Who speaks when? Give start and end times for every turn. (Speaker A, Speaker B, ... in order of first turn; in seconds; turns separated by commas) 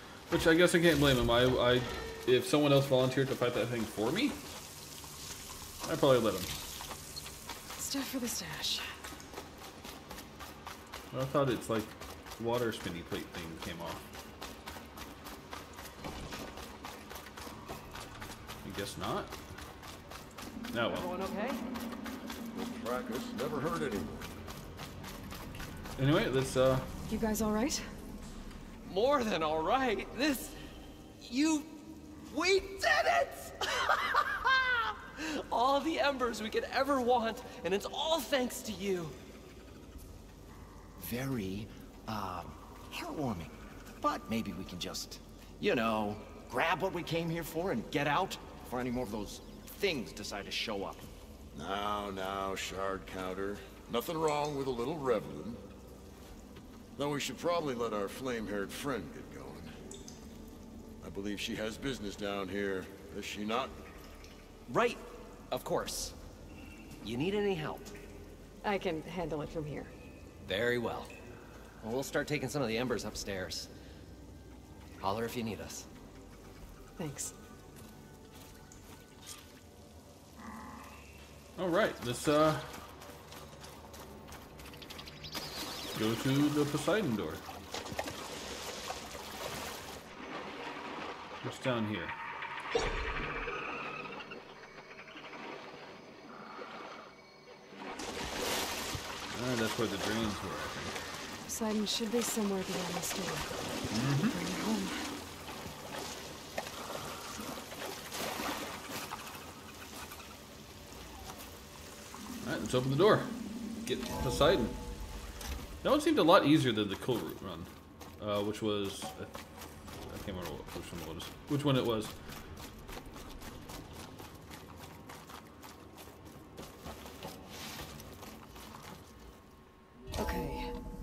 Speaker A: 0.3-4.4, Speaker A: 5.8-6.5, Speaker B: 7.8-8.9, Speaker A: 11.1-14.0, Speaker A: 18.6-19.3, Speaker A: 20.7-21.1, Speaker C: 20.8-21.6, Speaker D: 22.5-24.3, Speaker A: 26.0-26.9, Speaker B: 27.1-27.9, Speaker C: 28.9-30.6, Speaker C: 31.2-39.1, Speaker E: 41.0-51.1, Speaker D: 51.5-55.6, Speaker D: 57.0-59.7, Speaker D: 61.0-63.8, Speaker C: 64.7-66.2, Speaker C: 67.0-67.9, Speaker B: 68.6-69.9, Speaker C: 70.4-71.1, Speaker C: 71.8-73.7, Speaker C: 75.0-75.9, Speaker B: 77.0-77.3, Speaker A: 81.6-82.8, Speaker A: 85.9-87.4, Speaker A: 91.4-92.1, Speaker A: 99.3-101.0, Speaker B: 101.5-103.5, Speaker A: 103.9-104.4, Speaker B: 104.1-105.0, Speaker A: 112.4-113.3, Speaker A: 113.8-114.7, Speaker A: 115.8-119.3, Speaker A: 120.1-122.1, Speaker B: 130.2-130.7